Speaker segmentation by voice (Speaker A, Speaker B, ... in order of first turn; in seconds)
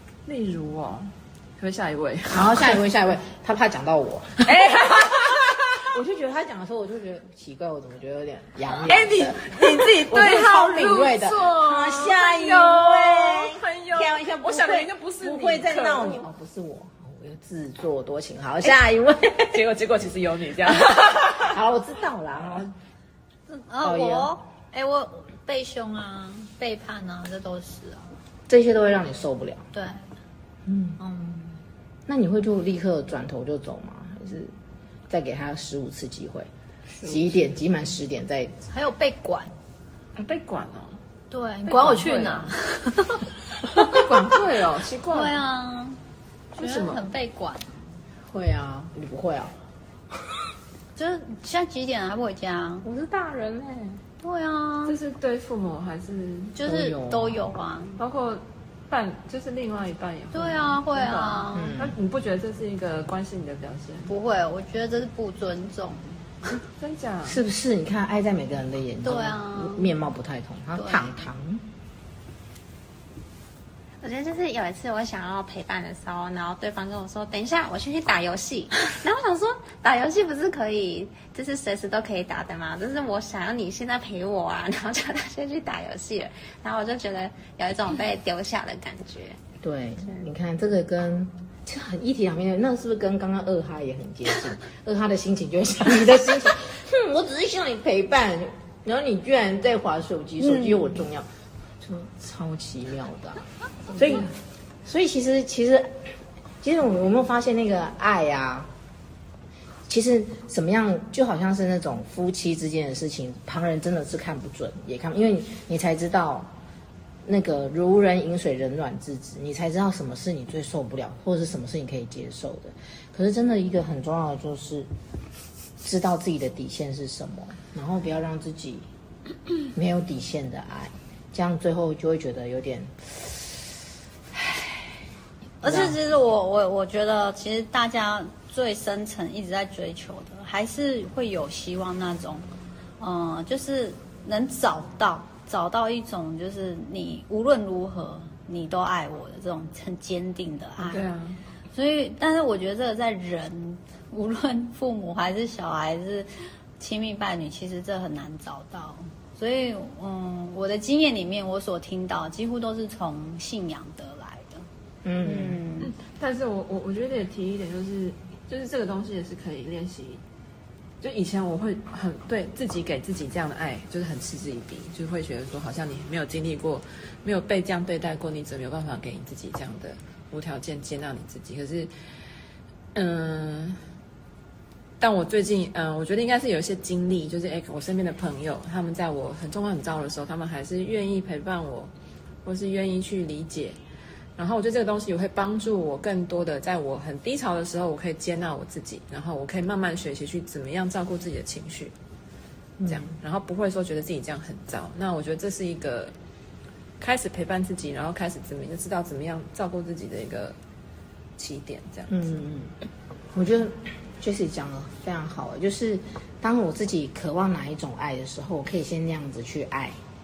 Speaker A: 0.2-2.8, 4.5-5.8, 8.8-16.2, 19.4-21.6, 40.2-41.0, 41.7-42.5, 43.8-45.4, 46.5-47.0, 54.9-56.5, 58.0-64.1, 66.8-67.4, 150.8-151.4, 165.8-170.2, 171.0-181.9, 182.9-183.8, 185.0-191.9, 192.4-193.8, 194.4-201.9, 202.9-206.1, 207.0-210.6, 211.4-212.1
Speaker B: 2.3-19.6, 21.4-22.7, 23.8-24.4, 28.5-29.6, 30.6-31.0, 32.1-34.5, 35.1-36.5, 37.0-38.6, 48.3-49.5, 52.8-54.0, 56.6-57.5, 61.5-62.0, 67.2-71.6, 89.6-101.2, 101.8-103.4, 103.9-104.3, 104.8-105.9, 106.6-108.7, 109.9-116.5, 117.2-124.9, 125.8-128.8, 129.7-133.6, 134.3-134.8, 135.6-136.0, 165.0-165.6, 202.8-203.1, 212.1-212.7, 213.3-219.9
Speaker C: 23.5-28.1, 29.7-30.0, 31.0-31.6, 38.7-39.5, 41.3-44.1, 45.1-46.0, 46.6-47.7, 51.0-52.9, 54.2-55.0, 56.5-58.0, 60.3-61.8, 64.1-66.6, 69.0-69.9, 70.8-71.2, 100.4-100.9, 135.6-142.5, 143.0-151.0, 151.7-164.6, 165.2-165.9
Speaker D: 74.0-89.4